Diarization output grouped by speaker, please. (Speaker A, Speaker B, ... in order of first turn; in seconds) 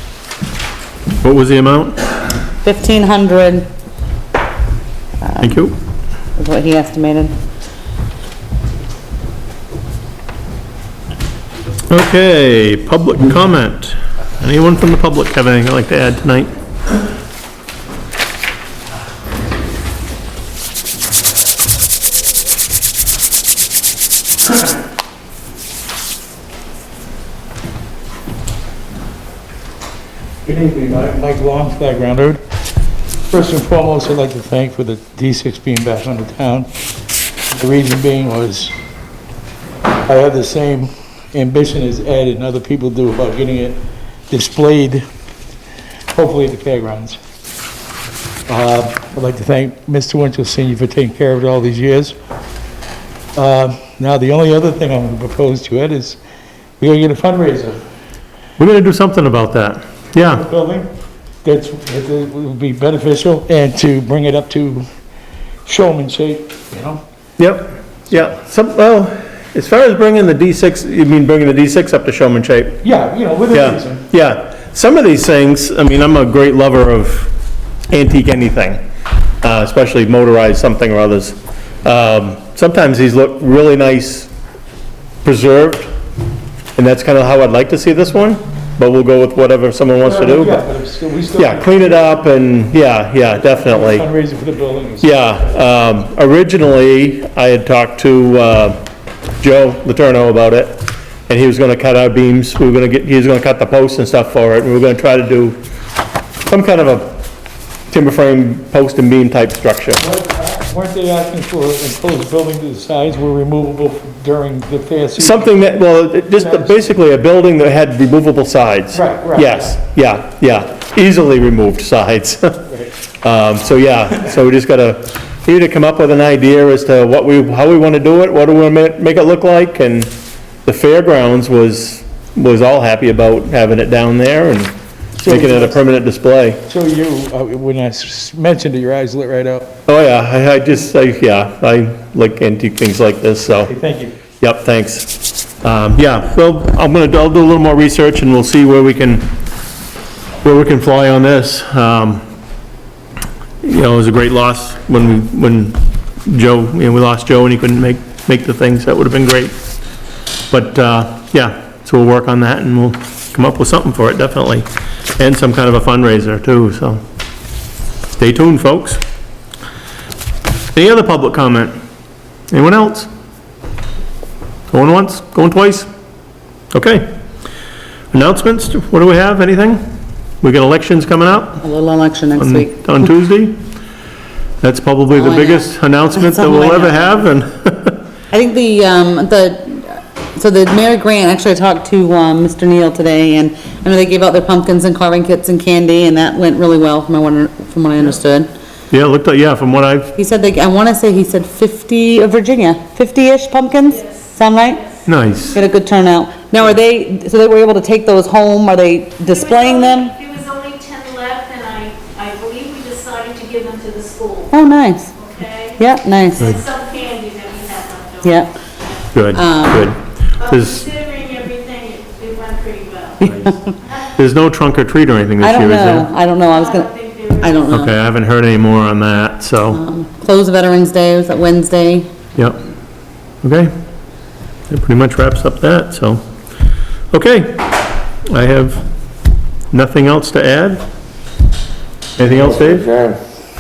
Speaker A: 1.2-2.0, 5.4-5.7, 11.9-16.5, 58.6-60.5, 67.4-72.8, 73.5-77.3, 77.9-78.8, 79.4-84.3, 85.2-85.9, 86.8-90.6, 91.4-94.1, 95.0-98.8, 99.4-105.6, 106.5-107.2, 107.9-110.0, 115.2-122.6, 123.2-130.1, 130.7-136.6, 139.9-143.7, 144.4-149.3, 150.4-152.2, 153.6-159.5, 160.5-164.7, 165.2-167.0, 168.2-169.0, 170.7-171.8, 172.5-173.1, 174.7-175.9, 176.7-177.1, 178.1-179.9, 180.4-181.6, 182.4-183.6, 184.6-188.0, 198.9-200.1, 205.1-205.6, 219.1-220.9, 224.2-226.1, 227.7-229.8, 233.4-233.7, 234.7-236.2, 237.1-237.6, 238.3-238.8, 239.7-240.8, 242.2-242.9
Speaker B: 2.6-3.7, 5.2-5.5, 6.4-7.3, 181.6-182.8, 185.1-187.3, 188.3-198.5, 200.2-204.8, 205.6-210.1, 214.5-215.1, 215.8-216.6, 218.2-218.5, 219.3-219.9, 223.2-223.7, 225.4-227.9, 229.7-232.1
Speaker C: 30.4-32.4, 33.3-36.7, 37.5-38.7, 40.1-45.0, 46.1-47.2, 48.5-52.1, 53.4-56.2, 56.8-57.8, 60.3-60.9, 61.4-64.8, 65.7-67.0, 72.8-74.0, 90.0-92.2, 93.3-95.1, 110.0-115.5, 116.4-116.7, 118.9-119.8, 135.2-135.8, 136.7-139.7, 143.7-144.2
Speaker D: 203.9-204.9, 209.3-214.5, 215.2-215.8, 216.4-219.0, 220.4-223.3, 226.5-227.7